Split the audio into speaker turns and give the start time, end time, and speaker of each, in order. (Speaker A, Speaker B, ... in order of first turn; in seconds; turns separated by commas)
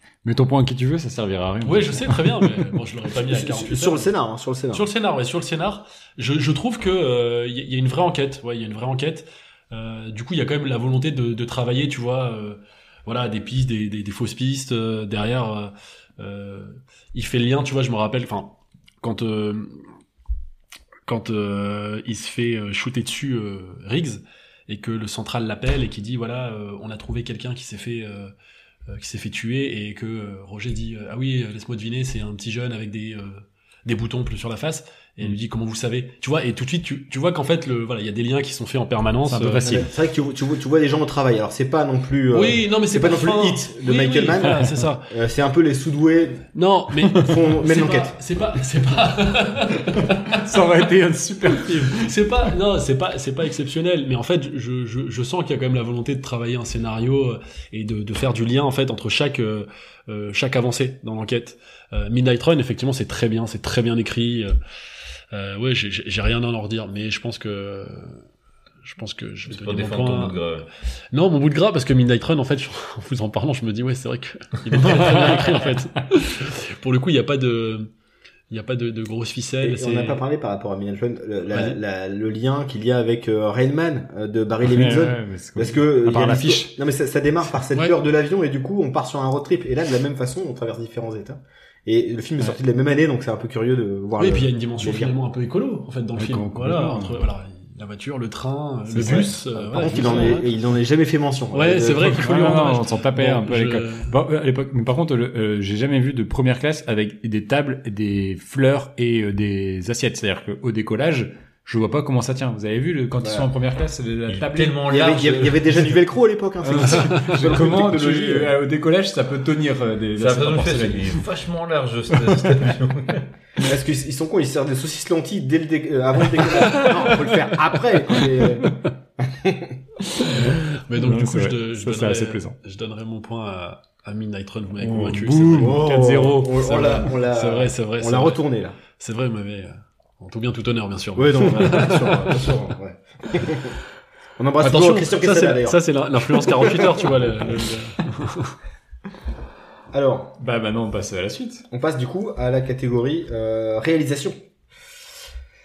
Speaker A: 0.2-2.6, Speaker B: 1.6-4.1, Speaker C: 3.2-4.8, Speaker B: 4.7-19.9, Speaker B: 21.0-28.3, Speaker B: 28.9-39.8, Speaker A: 39.2-39.9, Speaker C: 39.6-46.5, Speaker B: 42.3-45.1, Speaker B: 46.5-50.4, Speaker C: 47.1-48.1, Speaker A: 50.3-52.1, Speaker B: 52.0-64.6, Speaker B: 65.3-68.2, Speaker B: 68.8-70.5, Speaker D: 69.5-70.7, Speaker B: 71.1-77.9, Speaker B: 78.5-80.2, Speaker C: 79.6-95.1, Speaker B: 81.5-81.8, Speaker A: 84.6-86.7, Speaker B: 94.2-100.5, Speaker A: 96.2-97.2, Speaker C: 98.9-102.4, Speaker A: 99.9-100.4, Speaker B: 101.5-104.1, Speaker A: 102.2-114.8, Speaker C: 113.2-113.5, Speaker D: 114.3-115.9, Speaker C: 114.9-118.5, Speaker A: 116.6-121.2, Speaker B: 116.7-117.6, Speaker D: 120.2-123.3, Speaker C: 123.6-129.8, Speaker A: 126.5-127.1, Speaker A: 128.2-128.7, Speaker A: 130.2-132.6, Speaker B: 130.2-135.9, Speaker A: 134.8-137.1, Speaker C: 135.5-138.8, Speaker B: 136.7-142.5, Speaker C: 141.2-143.8, Speaker C: 144.4-145.8, Speaker B: 144.6-148.5, Speaker C: 146.4-147.0, Speaker C: 149.9-150.3, Speaker A: 150.4-151.7, Speaker C: 151.7-154.3